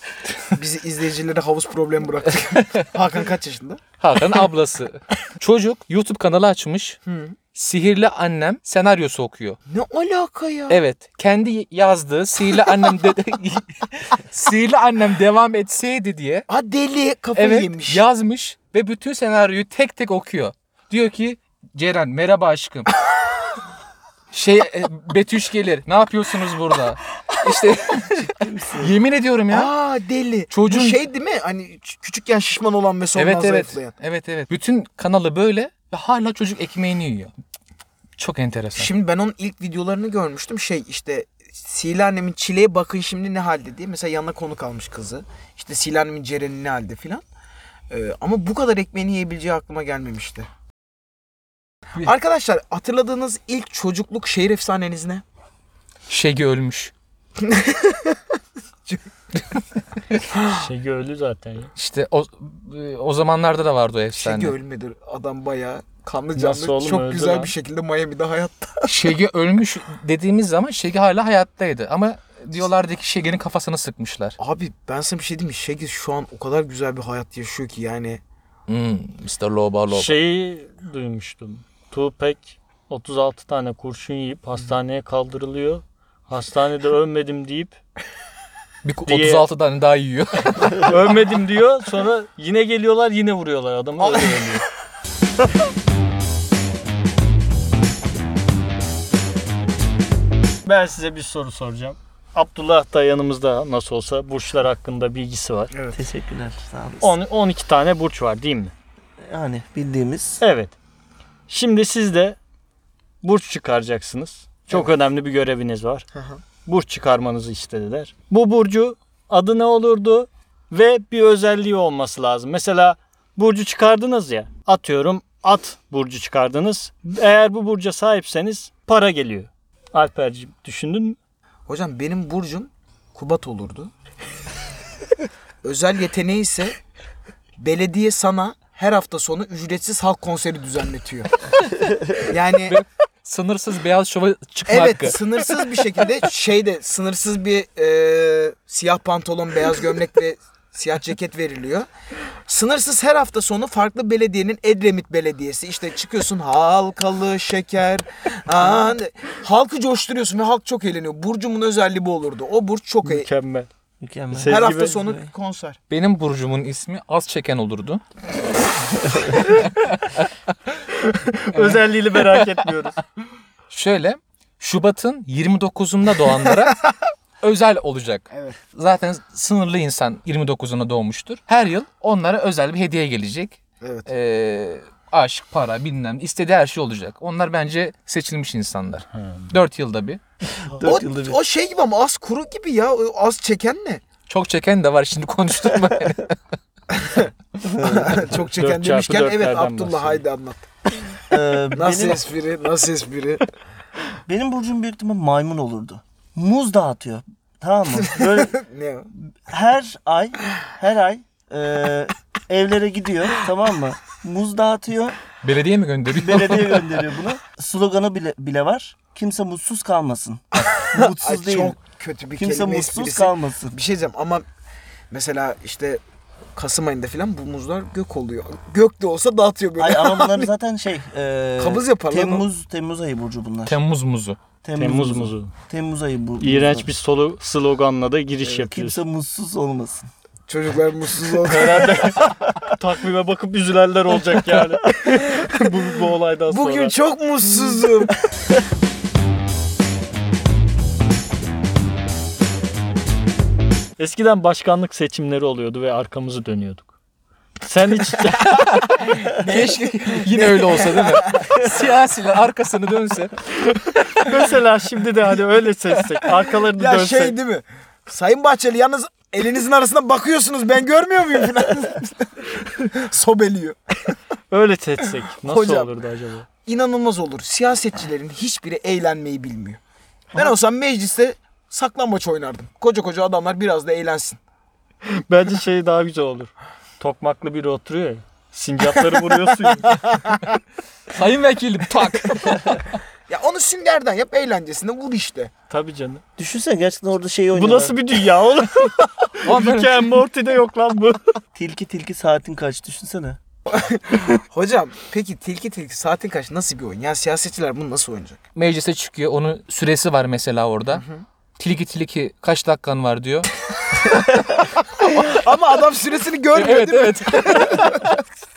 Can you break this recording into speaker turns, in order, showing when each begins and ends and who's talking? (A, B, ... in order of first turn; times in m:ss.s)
0:00.6-0:03.8 A
0:04.0-0:07.0 B
0:07.1-0:07.4 A
0:07.5-0:09.6 B
0:09.7-0:10.8 A
0:10.7-0:16.5 B
0:16.5-0:18.0 A
0:17.4-0:22.9 B
0:24.3-0:29.7 B
0:28.3-0:28.9 C
0:29.5-0:33.9 A
0:30.5-0:31.0 B
0:33.2-0:37.3 B
0:38.2-0:38.9 B
0:38.8-0:47.2 A
0:47.9-0:50.5 A
0:52.0-0:55.2 A
0:56.1-0:56.9 B
0:57.5-0:58.2 A
1:00.3-1:00.6 A
1:00.5-1:01.7 D
1:01.8-1:04.6 B
1:04.1-1:08.9 A
1:06.4-1:07.5 D
1:08.8-1:14.4 B
1:14.4-1:18.2 A
1:18.7-1:20.2 B
1:19.9-1:27.8 D
1:28.8-1:30.8 B
1:29.1-1:29.5 D
1:30.8-1:34.6 D
1:40.6-1:45.7 D
1:45.7-1:46.0 A
1:45.9-1:47.2 C
1:47.0-1:48.7 D
1:49.2-1:50.4 C
1:50.4-1:50.8 D
1:51.5-1:52.4 D
1:53.2-1:56.1 D
1:56.1-1:56.4 A
1:56.6-2:11.2 D
2:11.7-2:13.9 A
2:15.6-2:16.8 A
2:17.6-2:21.3 A
2:22.3-2:22.8 A
2:22.6-2:25.7 B
2:24.7-2:31.9 A
2:32.5-2:43.3 A
2:43.0-2:43.7 D
2:44.0-2:45.3 C
2:44.3-2:45.0 D
2:44.5-2:45.8 A
2:45.9-2:48.0 B
2:49.3-2:50.3 B
2:51.0-2:53.0 D
2:51.6-2:52.5 B
2:53.7-2:56.8 B
2:57.4-3:10.2 B
2:58.3-2:58.6 A
3:03.8-3:04.1 A
3:09.1-3:09.5 D
3:10.7-3:11.4 C
3:10.8-3:14.0 A
3:14.3-3:16.4 B
3:17.0-3:17.3 A
3:17.6-3:18.3 C
3:17.8-3:20.7 A
3:18.5-3:20.2 D
3:21.3-3:22.2 C
3:21.7-3:23.4 A
3:24.3-3:28.6 C
3:28.0-3:29.1 A
3:29.3-3:35.2 C
3:35.4-3:36.9 B
3:36.1-3:41.8 C
3:40.6-3:44.5 A
3:42.4-3:43.8 C
3:45.1-3:46.0 A
3:46.6-3:50.5 A
3:49.8-3:53.8 C
3:51.6-3:52.5 A
3:53.6-3:54.4 B
3:54.6-3:56.9 C
3:54.8-3:55.5 D
3:56.4-3:59.0 D
3:58.4-4:00.1 C
4:00.5-4:02.1 A
4:01.4-4:06.9 D
4:06.5-4:08.2 A
4:14.0-4:16.9 D
4:17.6-4:18.6 D
4:18.5-4:23.4 B
4:19.3-4:21.7 A
4:23.8-4:27.4 D
4:26.7-4:33.8 A
4:34.5-4:36.5 D
4:35.4-4:35.9 A
4:36.6-4:39.8 A
4:40.3-4:44.4 A
4:45.1-4:50.0 D
4:51.1-4:53.0 B
4:53.3-4:55.5 A
4:55.7-4:56.2 D
4:56.4-4:58.0 C
4:57.5-5:01.4 D
4:59.4-5:00.0 B
5:01.6-5:03.4 C
5:03.7-5:08.4 A
5:08.6-5:11.0 B
5:10.9-5:11.2 A
5:11.6-5:13.5 B
5:15.1-5:18.0 A
5:16.5-5:18.2 B